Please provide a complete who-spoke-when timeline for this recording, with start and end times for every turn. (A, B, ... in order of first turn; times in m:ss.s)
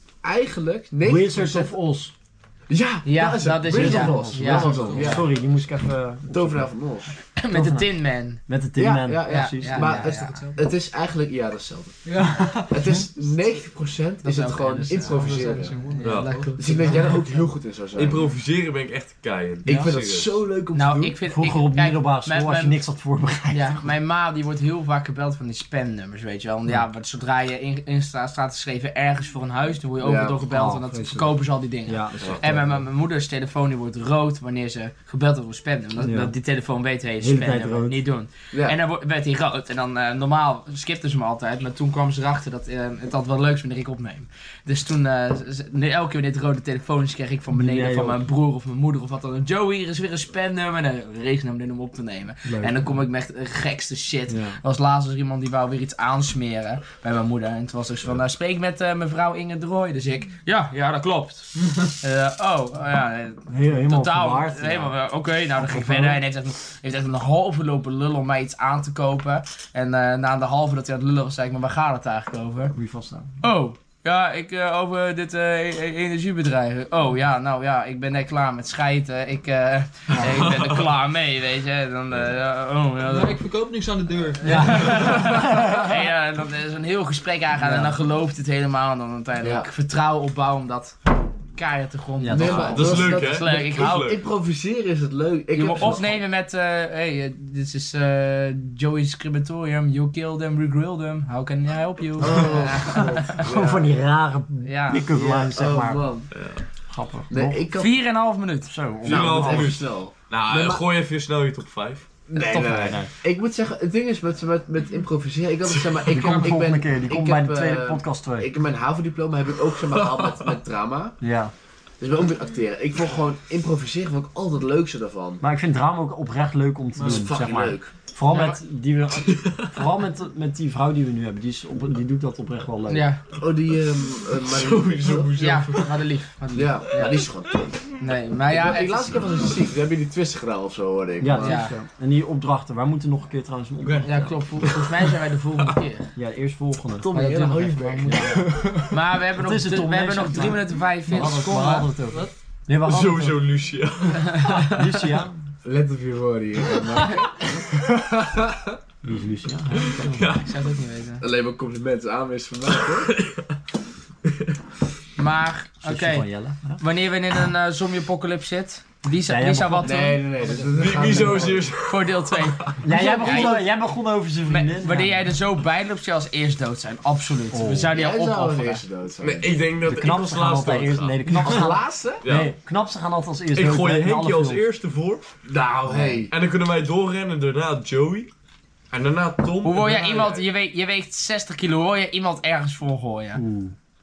0:00.2-0:01.8 A
0:01.0-0:02.1 B
0:02.7-0:05.3 A
0:03.0-0:05.1 C
0:03.7-0:06.7 B
0:04.5-0:05.3 D
0:06.3-0:07.2 A
0:07.3-0:08.4 C
0:07.5-0:07.9 B
0:08.5-0:10.2 B
0:08.8-0:12.0 A
0:09.2-0:10.6 C
0:10.0-0:10.7 D
0:12.0-0:13.0 D
0:12.2-0:12.6 C
0:12.7-0:15.8 A
0:13.4-0:13.6 C
0:14.2-0:17.4 C
0:14.9-0:17.2 D
0:16.0-0:16.4 E
0:16.6-0:18.3 A
0:17.9-0:20.4 E
0:19.6-0:21.2 A
0:19.6-0:19.9 B
0:20.7-0:22.9 C
0:21.3-0:23.9 B
0:23.5-1:12.7 C
0:30.0-0:30.5 A
0:30.5-0:32.8 B
0:36.0-0:36.3 B
0:37.2-0:38.0 B
0:38.5-0:38.8 A
0:47.5-0:48.2 B
0:52.4-0:53.0 B
0:54.3-0:54.6 B
1:03.5-1:05.0 B
1:05.5-1:06.2 B
1:12.7-1:13.3 B
1:13.4-1:23.4 C
1:20.2-1:20.8 E
1:23.0-1:25.2 D
1:24.4-1:25.9 B
1:24.4-1:34.1 C
1:27.6-1:27.9 B
1:29.4-1:29.7 A
1:32.2-1:33.0 B
1:32.3-1:36.2 A
1:32.4-1:34.2 E
1:35.5-1:43.5 C
1:42.2-1:43.9 A
1:43.3-1:46.1 B
1:44.6-1:45.5 C
1:45.1-1:46.3 A
1:46.3-1:46.6 E
1:46.9-1:47.6 B
1:47.3-1:48.0 A
1:47.7-1:48.8 C
1:48.7-1:49.8 B
1:49.0-1:50.8 A
1:49.0-1:52.0 E
1:52.3-2:01.2 A
1:52.4-1:52.7 C
1:52.4-1:53.1 B
1:55.7-1:56.5 E
1:56.0-1:58.5 B
1:59.9-2:00.5 E
2:01.2-2:01.5 B
2:02.0-2:05.4 A
2:05.4-2:13.0 B
2:07.0-2:07.3 D
2:07.0-2:07.9 A
2:08.3-2:08.6 C
2:09.3-2:09.7 E
2:12.9-2:13.2 C
2:13.4-2:15.3 A
2:14.2-2:16.0 E
2:15.3-2:17.3 C
2:16.5-2:17.9 A
2:18.0-2:19.3 C
2:18.5-2:21.6 A
2:21.2-2:24.6 B
2:21.4-2:21.8 C
2:23.9-2:26.1 C
2:26.2-2:27.2 B
2:27.0-2:28.9 A
2:27.1-2:31.9 C
2:28.0-2:28.9 B
2:29.4-2:33.4 B
2:32.8-2:34.7 E
2:34.6-2:35.4 B
2:35.6-2:38.6 A
2:39.0-2:40.3 B
2:39.8-2:40.5 E
2:40.3-2:41.2 C
2:41.2-2:43.1 A
2:42.7-2:43.5 E
2:45.2-2:53.6 C
2:45.8-2:46.8 B
2:49.3-2:50.0 B
2:49.8-2:51.8 A
2:50.4-2:51.1 D
2:50.8-2:52.8 E
2:52.8-2:55.2 B
2:54.5-2:58.8 C
2:57.5-2:58.0 B
2:57.9-2:59.5 A
2:59.2-3:01.6 E
2:59.8-3:04.6 B
3:01.2-3:02.2 A
3:02.2-3:02.5 E
3:03.5-3:05.3 E
3:05.4-3:06.3 A
3:05.9-3:06.2 C
3:06.3-3:08.3 E
3:08.9-3:10.5 E
3:09.6-3:13.4 C
3:13.3-3:13.7 B